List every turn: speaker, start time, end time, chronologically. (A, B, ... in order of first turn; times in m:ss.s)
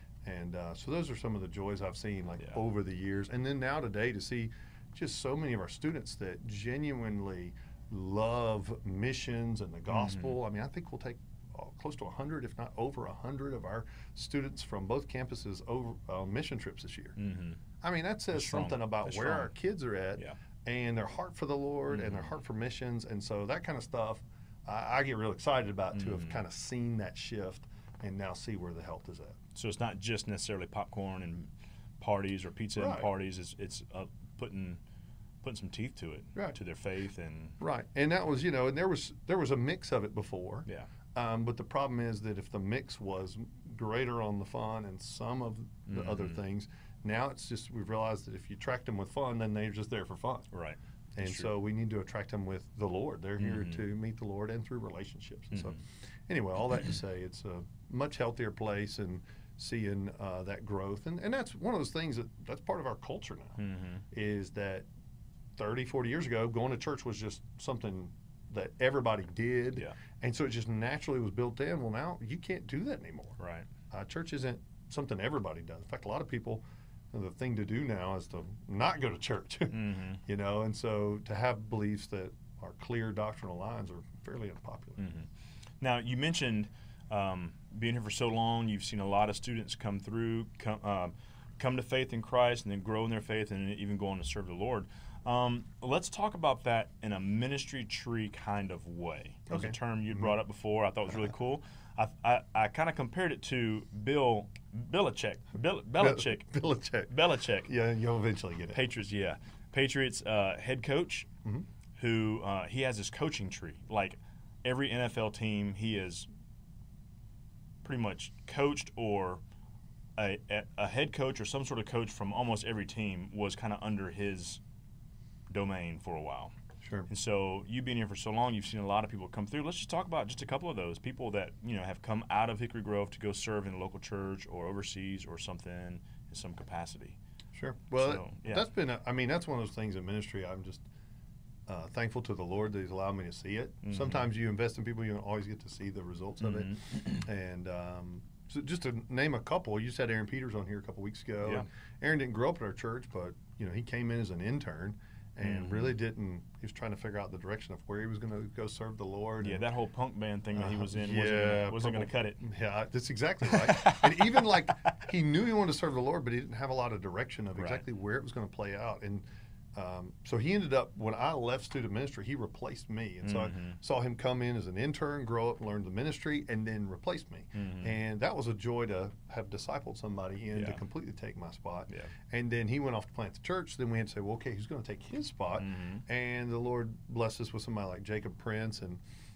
0:00.2-0:17.2 A
0:09.9-0:10.4 B
0:17.2-0:17.6 B
0:17.8-0:29.4 A
0:18.3-0:19.5 B
0:21.9-0:22.3 B
0:25.9-0:26.4 B
0:29.5-0:34.8 B
0:32.8-0:33.1 A
0:35.4-0:37.6 B
0:37.6-0:50.5 A
0:45.9-0:46.4 B
0:50.5-0:51.5 B
0:51.1-1:03.6 A
0:53.4-0:53.8 B
0:55.5-0:55.8 B
1:03.6-1:04.0 B
1:04.1-1:04.9 A
1:05.6-1:13.4 A
1:13.4-1:13.7 B
1:13.9-1:25.0 A
1:19.7-1:20.2 B
1:25.0-1:25.3 B
1:25.8-1:46.5 B
1:39.5-1:40.3 A
1:46.0-1:47.1 A
1:47.1-1:47.7 B
1:47.6-1:48.8 A
1:48.7-1:51.3 B
1:52.0-1:56.3 B
1:57.8-1:59.4 B
2:00.2-2:04.6 B
2:05.5-2:06.5 B
2:06.8-2:07.1 A
2:07.1-2:17.2 B
2:17.5-2:20.8 A
2:18.0-2:18.6 B
2:21.7-2:39.6 A
2:23.8-2:24.3 B
2:26.4-2:27.2 B
2:35.4-2:35.9 B
2:39.4-2:42.4 B
2:40.5-3:09.0 A
2:43.5-2:44.5 B
2:47.6-2:47.8 B
2:53.2-2:53.8 B
2:57.5-2:57.9 B
3:00.5-3:00.8 B
3:05.6-3:06.0 B